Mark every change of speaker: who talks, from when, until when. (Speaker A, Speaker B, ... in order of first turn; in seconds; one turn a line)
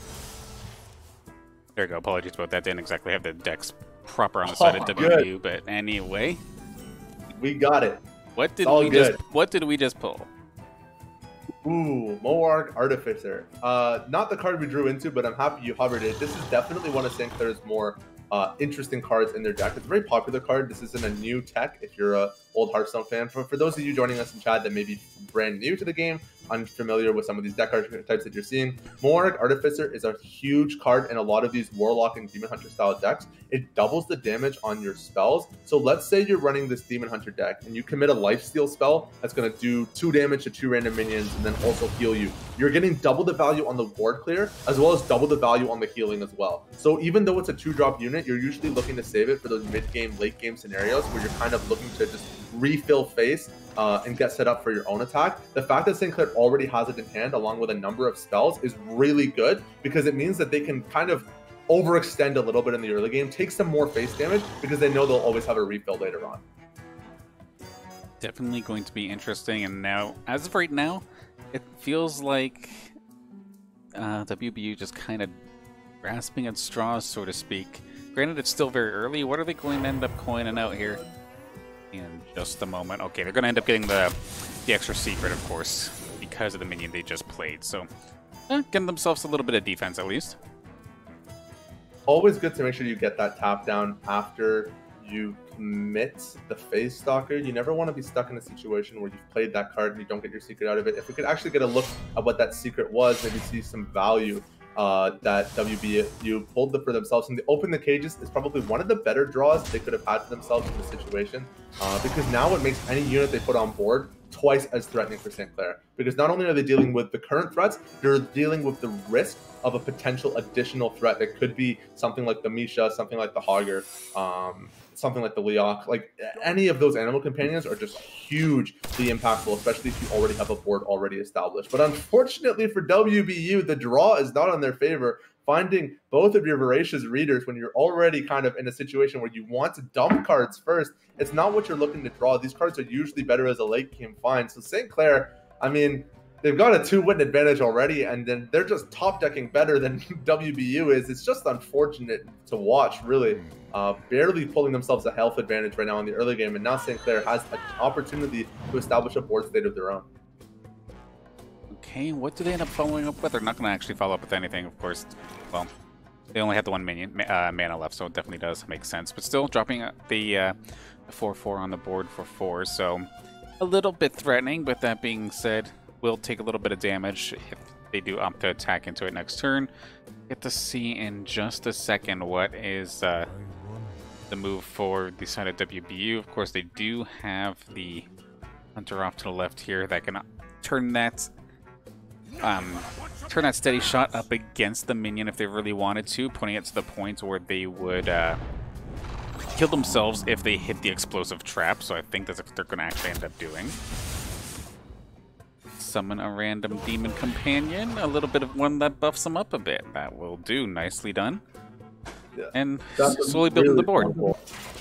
Speaker A: 1.8-6.4
Speaker B: 4.4-5.3
Speaker B: 7.3-8.0
Speaker A: 8.3-10.3
Speaker B: 8.6-9.2
Speaker B: 11.6-66.4
Speaker A: 68.2-72.9
Speaker A: 73.9-75.3
Speaker A: 76.0-81.0
Speaker A: 81.9-84.1
Speaker A: 84.7-87.9
Speaker A: 88.5-90.4
Speaker B: 92.1-160.1
Speaker A: 161.7-165.7
Speaker A: 166.3-170.6
Speaker A: 171.1-173.1
Speaker A: 173.6-179.7
Speaker A: 180.3-183.3
Speaker A: 184.3-188.1
Speaker A: 188.8-191.3
Speaker A: 192.4-198.4
Speaker A: 199.5-203.8
Speaker A: 205.8-211.4
Speaker B: 212.3-214.4
Speaker A: 212.5-214.2